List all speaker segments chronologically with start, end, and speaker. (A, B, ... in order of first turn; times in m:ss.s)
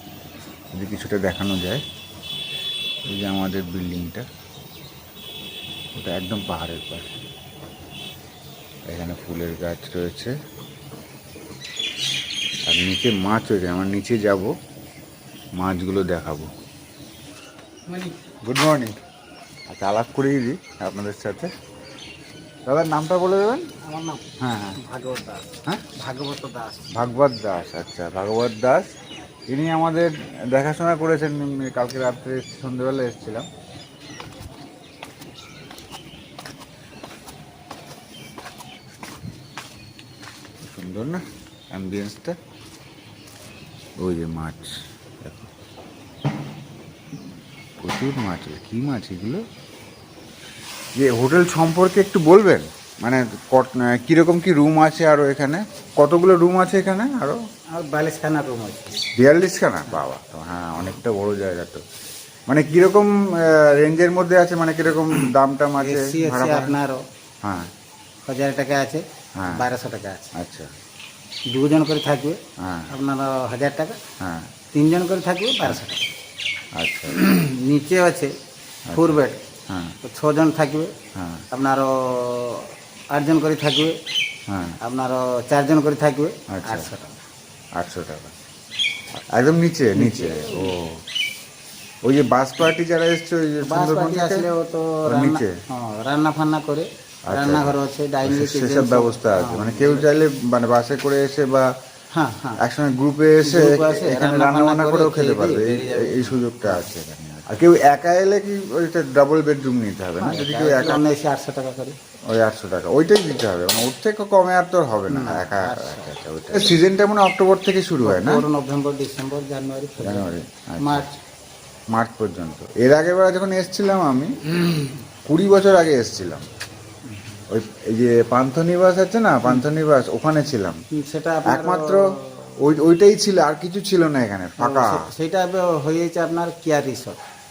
0:00.7-0:01.8 A
0:03.1-0:04.2 A
0:05.9-0:07.1 A
0:08.8-0:10.3 A
0:12.7-0:14.5 A
0:15.6-0:16.5 A
0:17.9-0:18.1 B
0:18.4-0:19.0 A
0:19.7-0:21.5 A
0:22.6-0:23.7 A
0:23.8-0:24.2 B
0:24.4-0:24.8 A
0:24.8-0:26.9 B
0:26.9-0:28.9 A
0:29.5-0:33.5 A
0:40.6-0:42.4 A
0:44.0-0:45.5 A
0:47.8-0:49.4 A
0:51.0-0:57.4 A
0:57.7-0:59.0 B
0:59.1-1:01.8 A
1:02.5-1:06.7 A
1:05.8-1:07.0 B
1:07.4-1:07.7 A
1:08.2-1:10.3 B
1:09.4-1:09.6 A
1:10.4-1:10.7 A
1:11.5-1:14.0 B
1:12.6-1:12.9 A
1:14.2-1:14.5 A
1:14.7-1:16.0 B
1:16.7-1:17.2 A
1:17.1-1:18.3 B
1:18.9-1:20.0 A
1:18.9-1:19.4 B
1:20.0-1:20.9 B
1:21.1-1:21.4 A
1:21.5-1:24.0 B
1:24.5-1:24.8 A
1:24.8-1:27.1 B
1:26.5-1:26.9 A
1:27.8-1:28.3 A
1:29.2-1:31.0 A
1:29.9-1:30.7 B
1:32.0-1:34.5 A
1:33.6-1:40.1 B
1:35.1-1:35.5 A
1:37.3-1:41.7 A
1:42.1-1:42.6 B
1:42.6-1:51.0 A
1:43.4-1:46.8 B
1:50.2-1:52.0 B
1:52.3-1:58.4 A
1:55.1-1:56.1 B
1:58.0-2:00.3 B
2:00.0-2:01.1 A
2:00.8-2:01.2 B
2:01.9-2:04.3 A
2:05.2-2:06.4 A
2:07.0-2:07.4 B
2:07.5-2:10.8 A
2:10.9-2:12.5 B
2:11.4-2:15.0 A
2:14.6-2:17.2 B